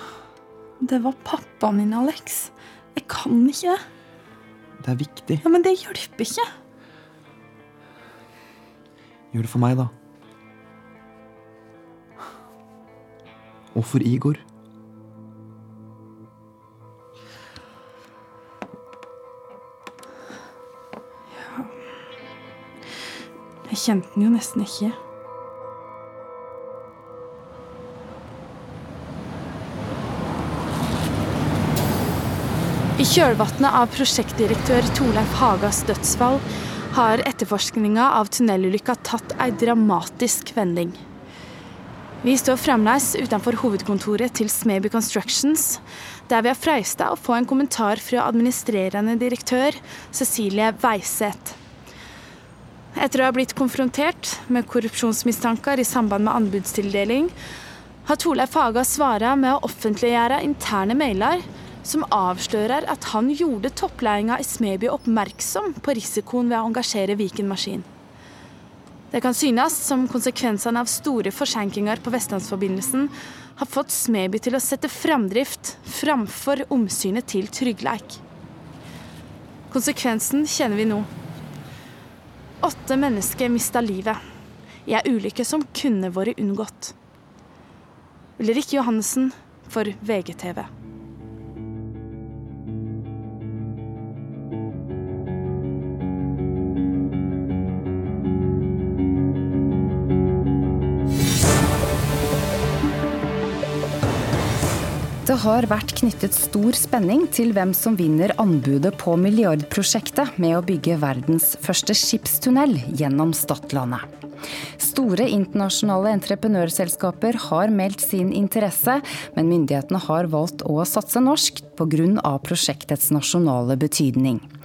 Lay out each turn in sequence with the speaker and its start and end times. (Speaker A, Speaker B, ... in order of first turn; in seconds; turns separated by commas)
Speaker A: 0.8-3.8, Speaker B: 4.8-5.4, Speaker A: 5.4-6.5, Speaker B: 9.3-9.9, Speaker B: 13.7-14.4, Speaker A: 21.3-21.7, Speaker A: 23.7-24.9, Speaker A: 33.0-41.0, Speaker A: 42.2-51.6, Speaker A: 52.9-57.3, Speaker A: 58.0-67.8, Speaker A: 69.1-78.2, Speaker A: 79.7-81.1, Speaker A: 82.6-84.2, Speaker A: 84.8-86.9, Speaker A: 88.4-90.7, Speaker C: 105.2-114.0, Speaker C: 114.8-124.5